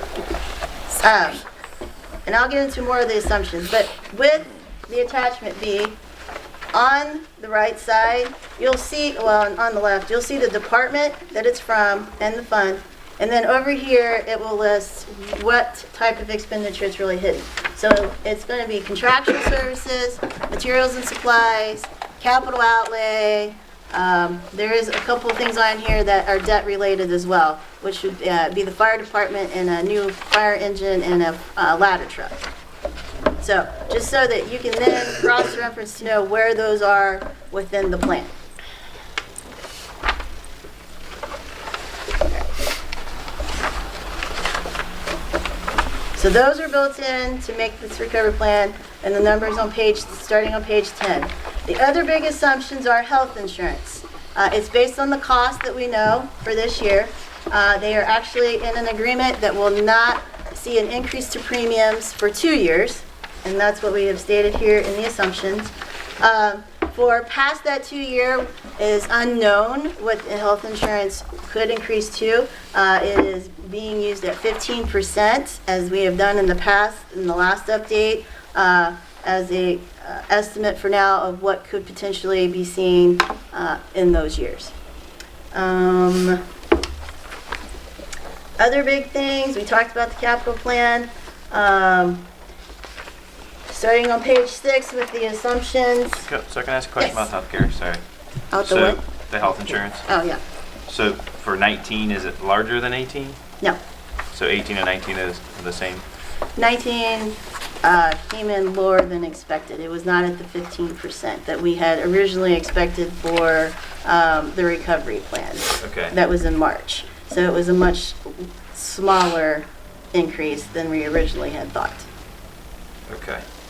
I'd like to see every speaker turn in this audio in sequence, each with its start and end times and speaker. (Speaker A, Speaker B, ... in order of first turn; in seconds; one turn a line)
Speaker A: 0.9-1.4
Speaker A: 2.3-6.0
Speaker A: 6.7-32.4
Speaker A: 33.4-38.3
Speaker A: 46.2-84.7
Speaker A: 85.5-86.4
Speaker A: 88.6-92.3
Speaker A: 93.7-96.3
Speaker B: 96.2-98.0
Speaker A: 97.0-97.3
Speaker A: 98.5-99.0
Speaker B: 98.7-100.0
Speaker A: 100.1-100.4
Speaker B: 100.9-103.4
Speaker B: 104.3-106.0
Speaker A: 106.6-122.1
Speaker B: 115.8-116.2
Speaker B: 123.1-123.5